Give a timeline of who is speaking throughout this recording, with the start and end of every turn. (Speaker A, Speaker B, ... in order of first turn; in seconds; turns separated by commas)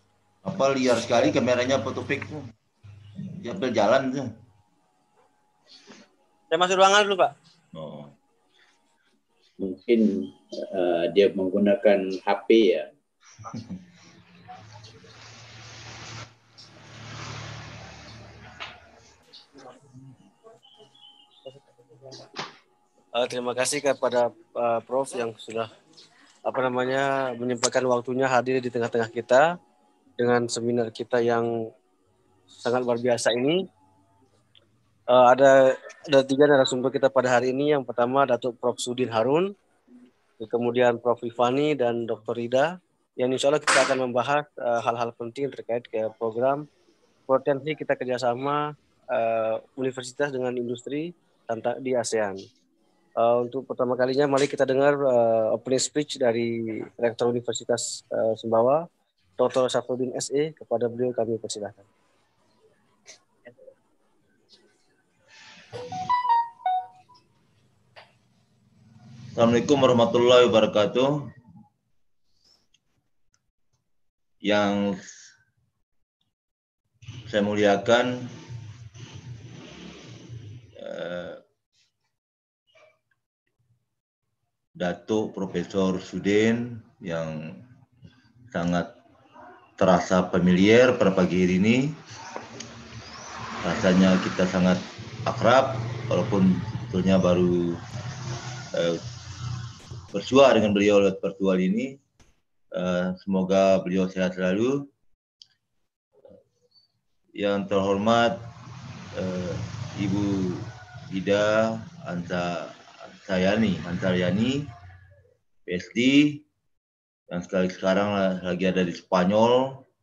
Speaker A: 0.4-2.5, Speaker A: 3.3-4.4, Speaker B: 6.5-7.3, Speaker A: 7.7-8.1, Speaker C: 9.6-12.9, Speaker B: 23.1-25.7, Speaker B: 26.4-29.5, Speaker B: 30.2-31.7, Speaker B: 32.6-33.6, Speaker B: 35.1-39.5, Speaker B: 40.4-46.7, Speaker B: 47.3-52.5, Speaker B: 53.2-58.9, Speaker B: 59.4-61.9, Speaker A: 69.3-71.3, Speaker A: 74.4-75.2, Speaker A: 77.3-78.4, Speaker A: 80.7-81.4, Speaker A: 84.8-87.7, Speaker A: 88.5-89.0, Speaker A: 89.8-92.0, Speaker A: 93.6-97.8, Speaker A: 98.7-99.0, Speaker A: 100.1-102.0, Speaker A: 102.7-104.9, Speaker A: 107.4-108.5, Speaker A: 109.1-114.7, Speaker A: 115.7-116.4, Speaker A: 117.3-119.8